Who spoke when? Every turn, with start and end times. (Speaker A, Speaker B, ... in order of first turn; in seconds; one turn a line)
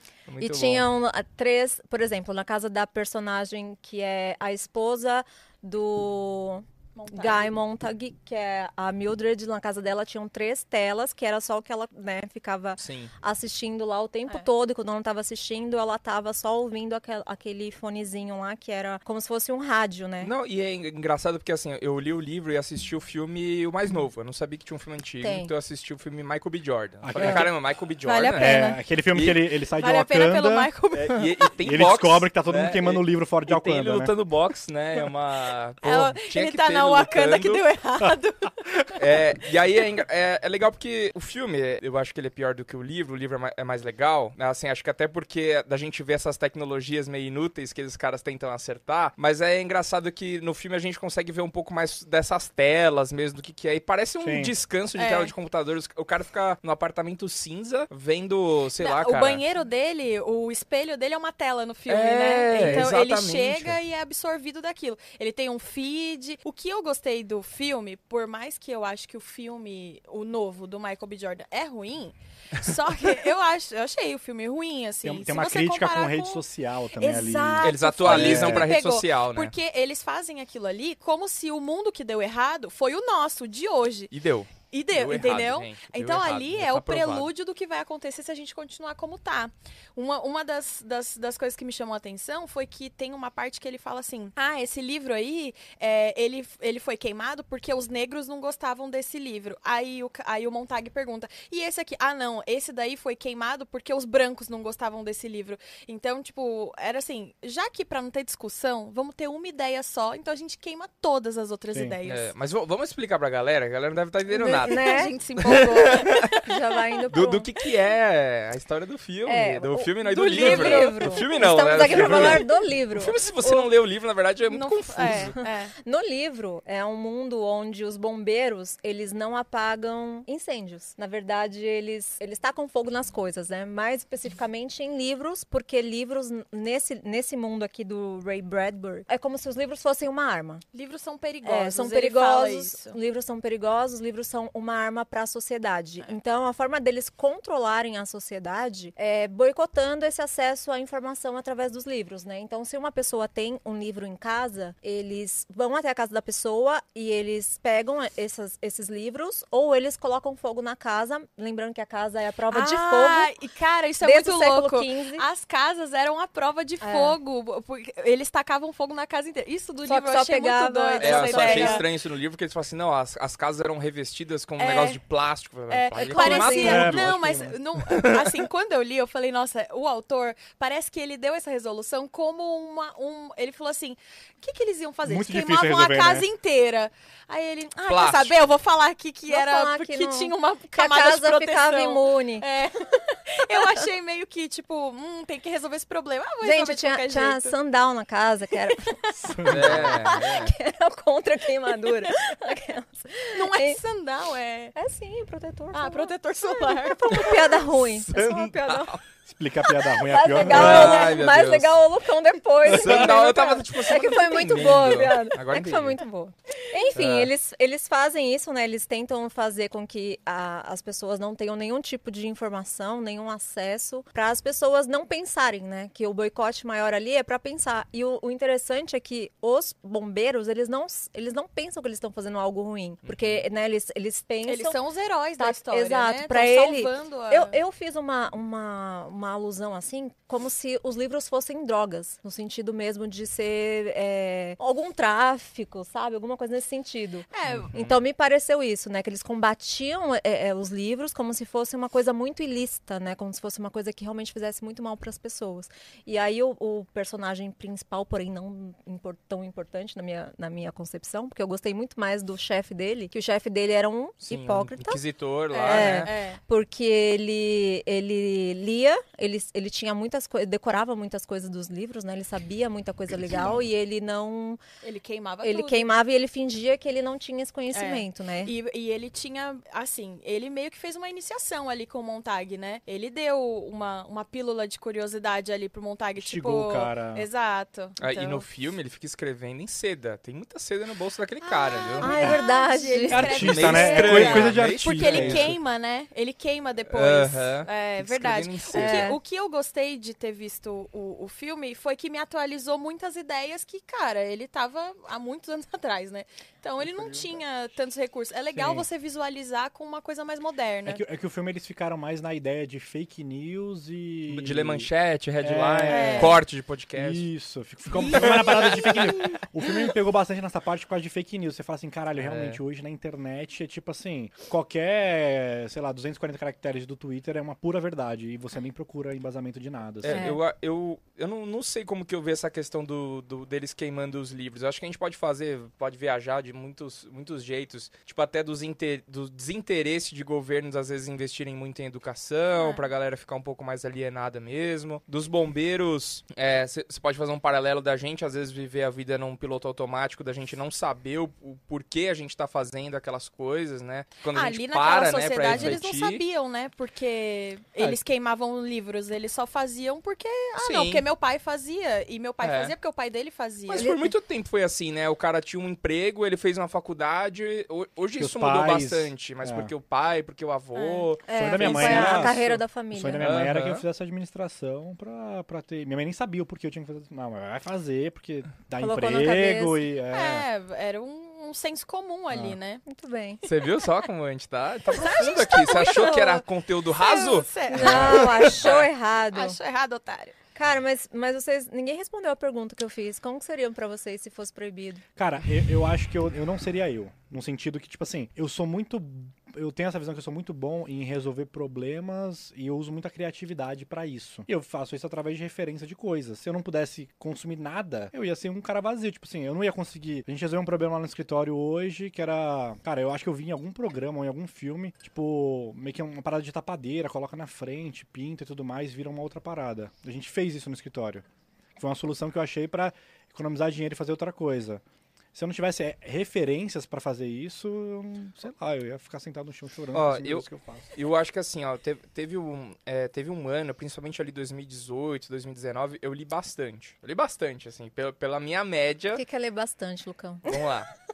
Speaker A: 0.3-0.9
Speaker B: 0.4-20.3
Speaker C: 7.0-7.5
Speaker A: 12.8-13.1
Speaker A: 20.2-28.6
Speaker B: 25.2-25.5
Speaker D: 27.0-27.5
Speaker C: 27.2-27.5
Speaker C: 28.0-28.8
Speaker D: 28.4-30.7
Speaker A: 29.1-29.4
Speaker C: 29.8-31.5
Speaker A: 30.9-37.6
Speaker D: 31.6-34.1
Speaker C: 35.8-39.0
Speaker A: 39.0-59.4
Speaker D: 54.2-54.5
Speaker C: 55.0-55.3
Speaker C: 58.8-76.5
Speaker A: 61.9-63.8
Speaker D: 75.0-78.7
Speaker C: 77.0-84.1
Speaker A: 77.6-79.5
Speaker A: 84.1-87.3
Speaker C: 84.7-112.3
Speaker A: 112.1-116.3
Speaker B: 114.3-115.1
Speaker C: 114.6-117.0
Speaker B: 116.2-117.5
Speaker A: 117.1-125.4
Speaker B: 119.3-123.7
Speaker C: 120.0-121.4
Speaker D: 122.0-122.3
Speaker C: 124.5-125.7
Speaker B: 125.1-140.6
Speaker C: 140.7-143.0
Speaker B: 141.4-163.3
Speaker C: 162.5-171.8
Speaker B: 164.0-165.3
Speaker B: 166.8-167.2
Speaker B: 169.8-171.9
Speaker A: 171.0-177.1
Speaker C: 174.6-175.0
Speaker C: 175.7-197.5
Speaker B: 176.0-177.1
Speaker D: 176.6-177.6
Speaker A: 177.9-178.2
Speaker D: 185.1-186.3
Speaker A: 187.9-188.3
Speaker B: 189.3-192.5
Speaker B: 193.2-193.8
Speaker B: 196.4-203.8
Speaker D: 199.2-200.0
Speaker A: 199.5-200.5
Speaker C: 201.8-202.1
Speaker C: 203.3-204.8
Speaker B: 204.8-209.0
Speaker C: 205.7-207.7
Speaker A: 207.7-209.0
Speaker D: 209.3-211.2
Speaker B: 209.9-234.8
Speaker A: 210.4-211.8
Speaker A: 212.7-216.0
Speaker A: 216.9-217.3
Speaker A: 233.0-233.4
Speaker C: 234.4-237.6
Speaker B: 235.4-265.0
Speaker C: 247.3-247.7
Speaker A: 247.5-248.0
Speaker A: 264.3-266.1
Speaker C: 265.5-266.4
Speaker B: 265.7-274.6
Speaker D: 273.3-273.6
Speaker C: 274.8-275.9
Speaker B: 275.4-278.5
Speaker C: 277.7-288.4
Speaker D: 286.2-287.3
Speaker A: 288.0-292.2
Speaker C: 291.4-311.0
Speaker B: 292.0-294.5
Speaker D: 293.1-295.6
Speaker A: 293.2-295.6
Speaker A: 296.9-299.1
Speaker B: 298.7-299.2
Speaker D: 306.8-307.4
Speaker D: 308.5-308.9
Speaker D: 310.9-314.9
Speaker A: 314.3-317.2
Speaker D: 315.4-316.4
Speaker C: 315.9-316.4
Speaker D: 317.0-330.4
Speaker C: 317.9-319.1
Speaker A: 318.1-319.9
Speaker A: 322.2-322.6
Speaker A: 330.0-356.2
Speaker B: 330.1-330.4
Speaker C: 354.3-363.9
Speaker D: 355.5-355.8
Speaker A: 360.6-361.1
Speaker A: 362.4-362.7
Speaker A: 363.7-372.5
Speaker B: 363.8-364.1
Speaker D: 368.2-369.7
Speaker B: 370.8-373.3
Speaker D: 371.3-380.5
Speaker A: 373.2-373.8
Speaker B: 378.8-379.8
Speaker C: 380.1-382.8
Speaker D: 382.3-382.6
Speaker B: 382.9-383.4
Speaker A: 383.4-388.9
Speaker C: 384.9-390.3
Speaker B: 387.7-389.6
Speaker D: 387.8-388.3
Speaker B: 390.6-395.0
Speaker D: 395.2-421.2
Speaker D: 421.8-424.8
Speaker D: 425.3-430.9
Speaker A: 429.9-439.2
Speaker B: 439.1-440.6
Speaker A: 440.5-440.9